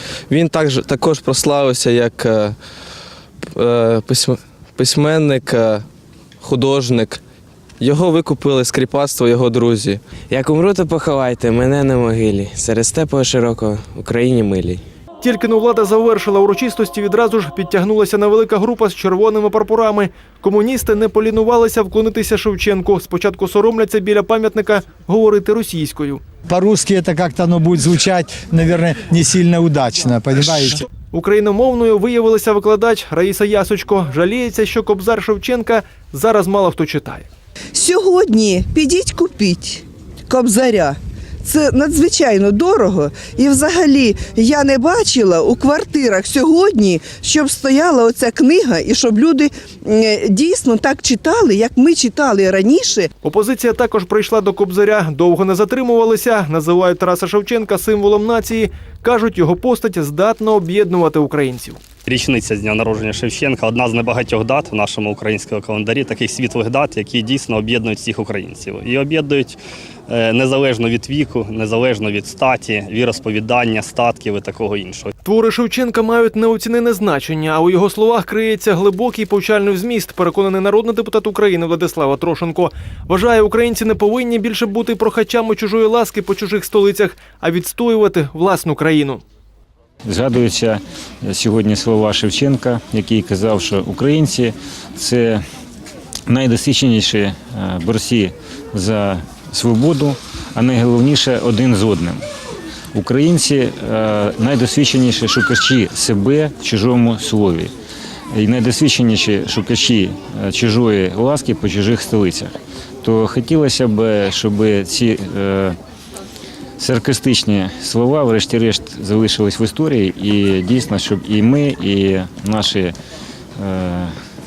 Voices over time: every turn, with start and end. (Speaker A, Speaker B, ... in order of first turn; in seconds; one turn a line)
Speaker A: 0.3-2.6
Speaker A: 3.5-5.8
Speaker A: 6.4-7.2
Speaker A: 7.8-10.0
Speaker B: 10.3-14.8
Speaker C: 15.2-26.2
Speaker D: 26.5-30.8
Speaker C: 31.1-37.2
Speaker E: 37.7-53.1
Speaker C: 53.2-61.8
Speaker F: 62.0-69.6
Speaker F: 70.1-75.1
Speaker C: 75.2-89.2
Speaker G: 90.0-95.4
Speaker G: 96.3-102.2
Speaker G: 102.9-107.7
Speaker G: 108.3-115.8
Speaker G: 116.8-122.9
Speaker G: 123.6-124.1